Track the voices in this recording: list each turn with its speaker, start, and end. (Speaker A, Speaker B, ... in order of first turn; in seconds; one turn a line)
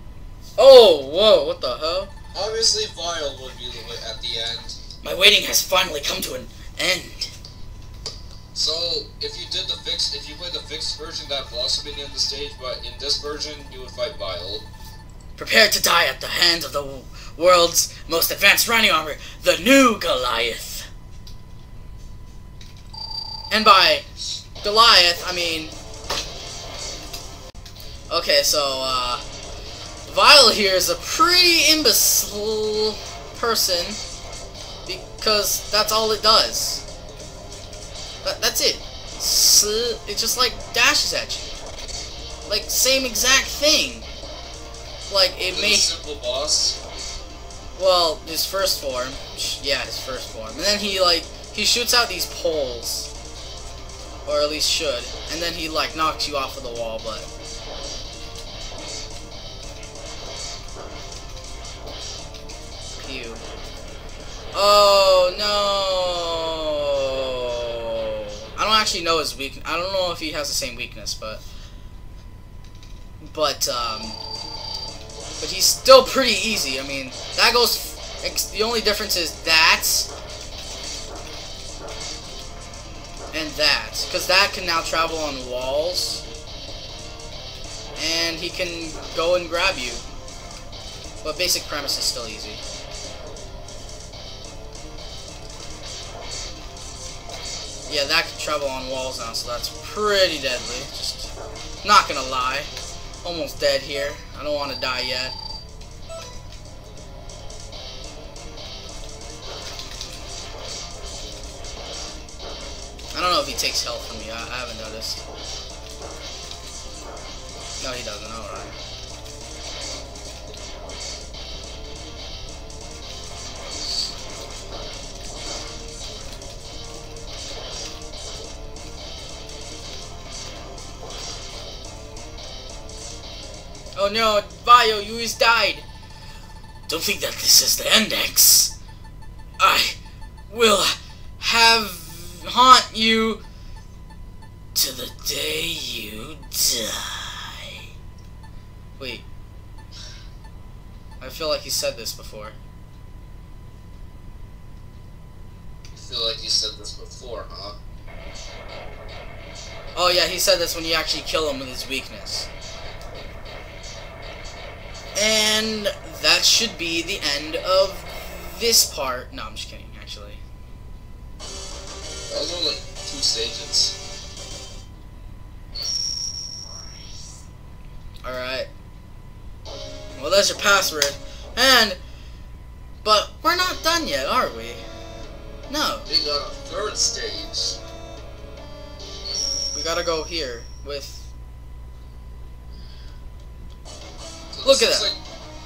Speaker A: 0.6-2.1
Speaker B: 2.3-4.8
Speaker A: 5.0-7.3
Speaker B: 8.5-14.7
Speaker A: 15.4-20.9
Speaker A: 23.5-24.1
Speaker A: 24.6-25.8
Speaker A: 28.1-29.2
Speaker A: 30.1-34.0
Speaker A: 34.9-36.8
Speaker A: 38.2-41.5
Speaker A: 42.5-44.1
Speaker A: 45.1-45.9
Speaker B: 45.5-46.8
Speaker A: 47.8-53.1
Speaker A: 54.3-57.3
Speaker A: 63.0-63.4
Speaker A: 64.5-67.9
Speaker A: 68.6-71.4
Speaker A: 73.2-74.2
Speaker A: 75.4-80.1
Speaker A: 83.3-86.2
Speaker A: 88.0-90.0
Speaker A: 91.2-92.6
Speaker A: 97.9-101.3
Speaker A: 101.8-102.7
Speaker A: 103.2-105.3
Speaker A: 113.1-115.2
Speaker A: 117.8-118.8
Speaker A: 134.0-135.9
Speaker A: 136.9-138.7
Speaker A: 139.6-140.0
Speaker A: 140.5-143.4
Speaker A: 144.8-147.8
Speaker A: 149.0-149.2
Speaker A: 151.2-152.6
Speaker B: 155.9-157.8
Speaker A: 159.9-162.5
Speaker A: 165.2-170.4
Speaker B: 172.3-173.9
Speaker A: 178.2-178.7
Speaker A: 180.2-182.0
Speaker A: 183.0-184.8
Speaker A: 185.7-186.1
Speaker B: 186.1-187.8
Speaker A: 189.7-191.3
Speaker B: 194.5-195.2
Speaker A: 194.6-195.1